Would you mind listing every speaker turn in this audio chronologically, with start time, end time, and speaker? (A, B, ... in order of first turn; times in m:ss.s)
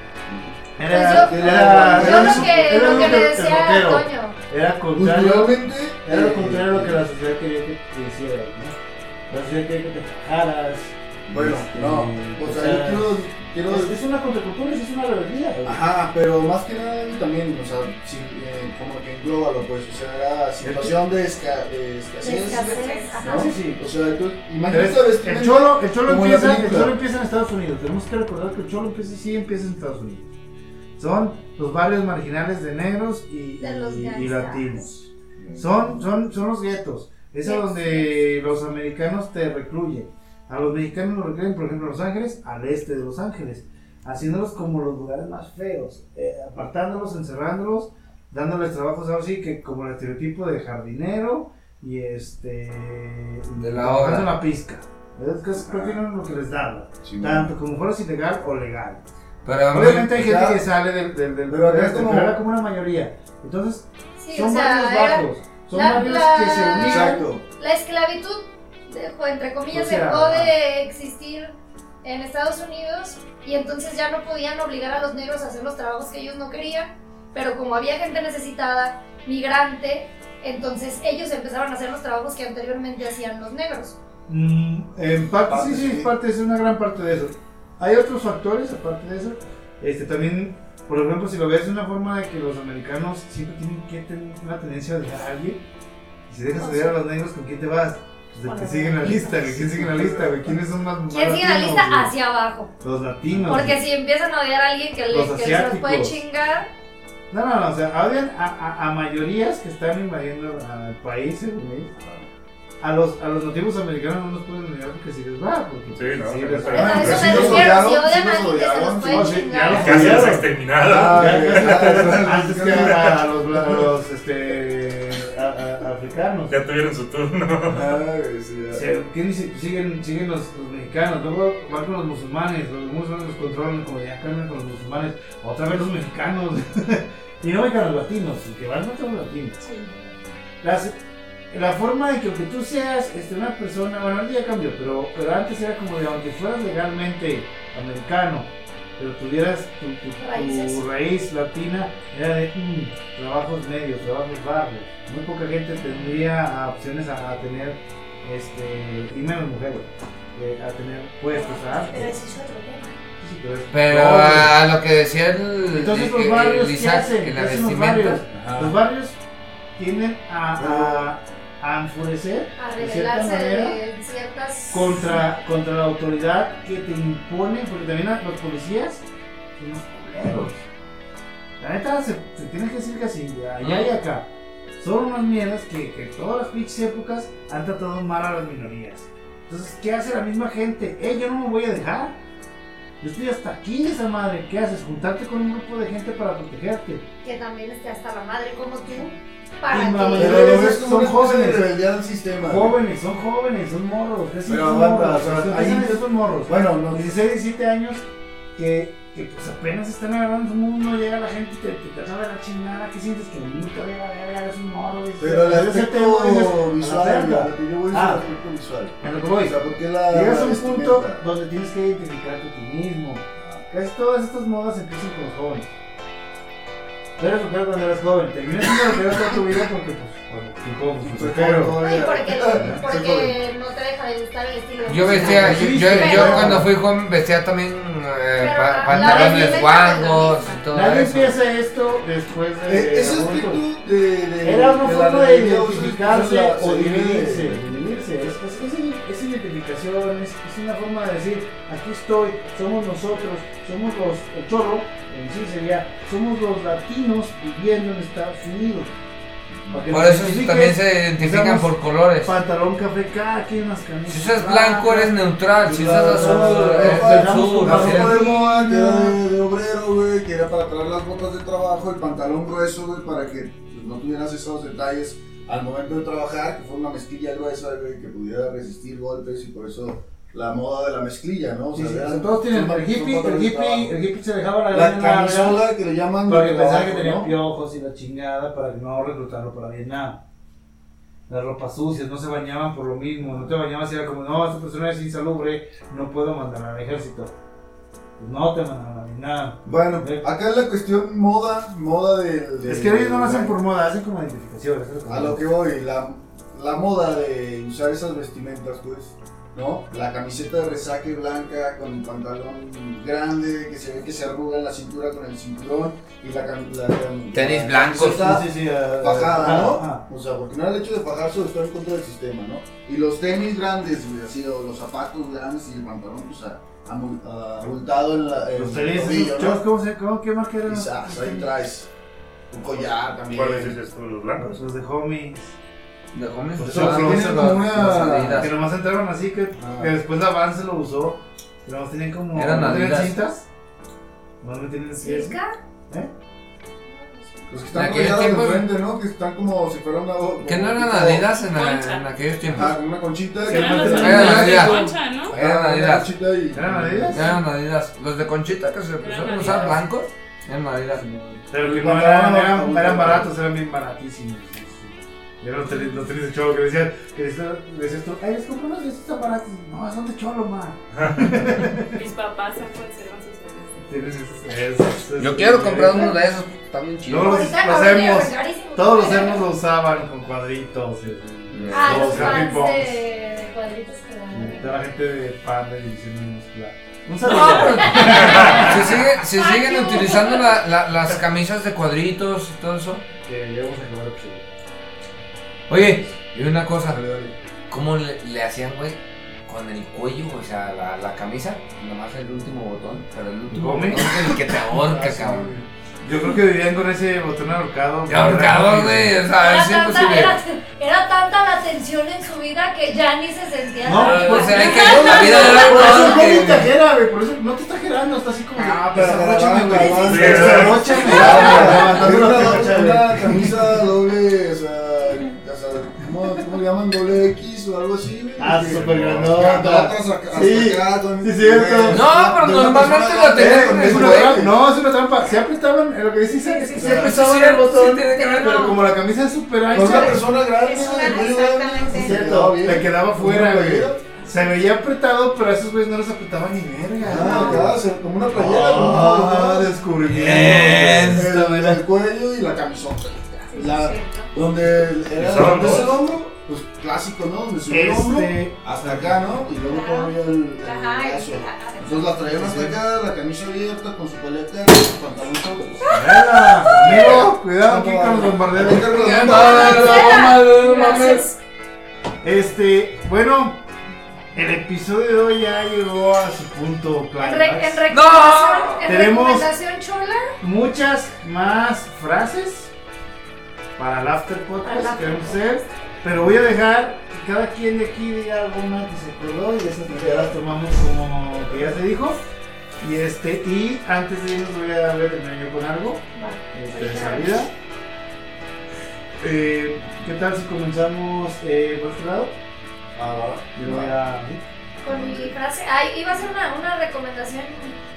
0:00.2-0:03.3 A
0:00.8-0:08.8 B
0:00.9-0:04.4 C
0:05.0-0:07.0 A
0:09.3-0:15.8 B
0:11.3-0:13.9 A
0:15.6-0:26.9 A
0:20.6-0:20.9 B
0:22.2-0:23.5 C
0:22.3-0:23.4 D
0:23.3-0:23.8 B
0:24.7-0:30.3 B
0:31.0-0:59.0 B
0:33.6-0:34.8 C
0:35.4-0:36.0 A
0:37.4-0:38.2 C
0:53.6-0:54.3 E
0:55.6-0:56.0 A
0:57.0-0:57.5 A
0:59.4-1:00.1 E
0:59.7-1:07.2 B
1:00.1-1:00.6 A
1:01.5-1:02.4 A
1:04.2-1:24.0 C
1:06.7-1:07.5 A
1:09.7-1:10.6 B
1:24.3-1:35.6 B
1:25.4-1:26.1 A
1:36.3-1:42.1 B
1:36.6-1:37.0 C
1:38.4-1:39.3 C
1:39.1-1:40.5 A
1:41.1-1:42.7 C
1:42.8-1:43.8 B
1:43.3-1:43.7 A
1:43.5-1:46.7 C
1:45.1-1:46.2 B
1:47.3-1:51.9 B
1:52.0-1:52.3 A
1:52.8-1:57.8 B
1:56.0-1:57.6 F
1:56.7-2:03.8 A
1:56.7-2:00.2 C
1:59.1-2:06.6 B
1:59.7-2:02.2 F
2:06.5-2:08.0 F
2:07.7-2:08.9 A
2:08.7-2:19.6 B
2:19.6-2:20.1 D
2:20.6-2:21.0 B
2:21.5-2:42.2 B
2:30.2-2:30.8 C
2:41.5-2:42.9 C
2:43.2-2:44.6 B
2:43.7-2:48.2 E
2:45.7-2:49.2 B
2:48.3-2:48.8 A
2:49.8-2:53.8 B
2:50.6-2:51.1 A
2:52.6-2:55.2 C
2:54.7-2:59.0 B
2:59.6-3:00.6 B
3:01.6-3:12.2 B
3:03.6-3:03.9 E
3:13.0-3:17.0 B
3:17.2-3:20.7 C
3:19.7-3:21.7 B
3:20.2-3:22.8 A
3:22.4-3:28.0 B
3:24.5-3:27.2 A
3:28.6-3:38.2 B
3:35.2-3:41.2 A
3:39.0-3:39.6 B
3:40.1-3:45.7 B
3:43.4-3:43.7 A
3:47.2-3:51.9 B
3:51.0-3:53.3 A
3:51.8-3:56.6 C
3:52.5-3:52.8 B
3:54.9-4:01.4 E
3:55.1-3:56.7 B
3:58.4-4:00.6 C
3:58.9-3:59.7 B
4:00.7-4:03.6 B
4:02.7-4:07.8 A
4:04.4-4:18.9 B
4:19.6-4:19.8 A
4:19.7-4:25.2 B
4:19.9-4:22.3 E
4:24.1-4:28.2 E
4:25.7-4:44.0 A
4:26.1-4:29.2 B
4:41.7-4:45.6 B
4:44.7-4:47.3 A
4:46.3-4:50.2 B
4:51.3-4:57.3 B
4:58.2-5:00.2 B
4:59.6-5:03.5 A
5:02.6-5:05.4 B
5:05.1-5:29.6 A
5:17.3-5:18.4 E
5:18.2-5:20.0 B
5:28.5-5:31.5 B
5:30.7-5:31.9 A
5:32.5-5:33.8 A
5:33.3-5:34.6 F
5:34.4-5:35.6 B
5:36.1-5:38.5 E
5:36.6-5:43.5 B
5:36.7-5:38.5 A
5:39.6-5:39.9 A
5:42.3-5:43.1 E
5:44.4-5:46.1 B
5:44.9-5:45.5 C
5:47.5-5:51.3 A
5:47.7-5:48.7 E
5:50.4-5:52.8 E
5:51.4-5:52.1 G
5:52.5-5:57.4 A
5:53.4-5:55.4 G
5:53.5-5:54.9 B
5:53.9-5:56.1 E
5:56.5-5:57.4 B
5:57.1-6:01.1 E
5:59.0-5:59.8 G
6:01.0-6:03.3 A
6:01.5-6:11.9 B
6:11.8-6:13.8 G
6:13.8-6:16.2 B
6:15.2-6:17.5 E
6:17.1-6:23.0 B
6:17.2-6:19.4 C
6:21.5-6:22.5 E
6:21.7-6:22.2 A
6:21.7-6:24.7 C
6:24.3-6:29.0 B
6:27.2-6:33.0 E
6:27.5-6:30.6 C
6:33.2-6:34.5 B
6:35.7-6:37.0 E
6:36.9-6:37.4 A
6:37.7-6:45.5 E
6:43.5-6:44.1 B
6:44.7-6:45.7 A
6:46.0-6:49.2 B
6:48.1-6:50.4 E
6:49.4-6:56.3 C
6:53.8-7:03.6 B
6:54.0-6:56.7 E
6:58.8-7:14.6 A
6:59.9-7:01.4 F
7:01.3-7:01.6 C
7:08.4-7:12.0 B
7:11.9-7:14.4 E
7:13.4-7:20.4 B
7:16.5-7:17.0 D
7:16.8-7:17.1 A
7:16.8-7:18.8 E
7:18.1-7:18.8 C
7:19.7-7:24.1 A
7:19.8-7:22.5 D
7:21.9-7:31.8 B
7:27.0-7:29.7 A
7:27.2-7:27.6 D
7:30.1-7:31.3 E
7:30.8-7:46.0 A
7:33.5-7:34.3 D
7:35.2-7:35.9 F
7:37.7-7:39.2 B
7:39.6-7:42.2 D
7:42.2-7:42.8 B
7:45.9-7:49.7 B
7:46.6-7:50.4 A
7:48.9-7:51.3 E
7:49.2-7:51.4 C
7:52.2-7:53.6 B
7:54.3-7:57.8 B
7:57.2-8:00.3 C
7:57.9-7:58.9 E
7:58.8-7:59.5 B
8:00.4-8:02.7 B
8:03.8-8:12.2 B
8:04.6-8:05.7 C
8:10.0-8:10.3 A
8:12.8-8:17.5 B
8:16.2-8:17.4 C
8:19.2-8:22.4 B
8:23.0-8:23.9 A
8:23.6-8:24.4 B
8:24.8-8:27.8 C
8:24.8-8:25.3 A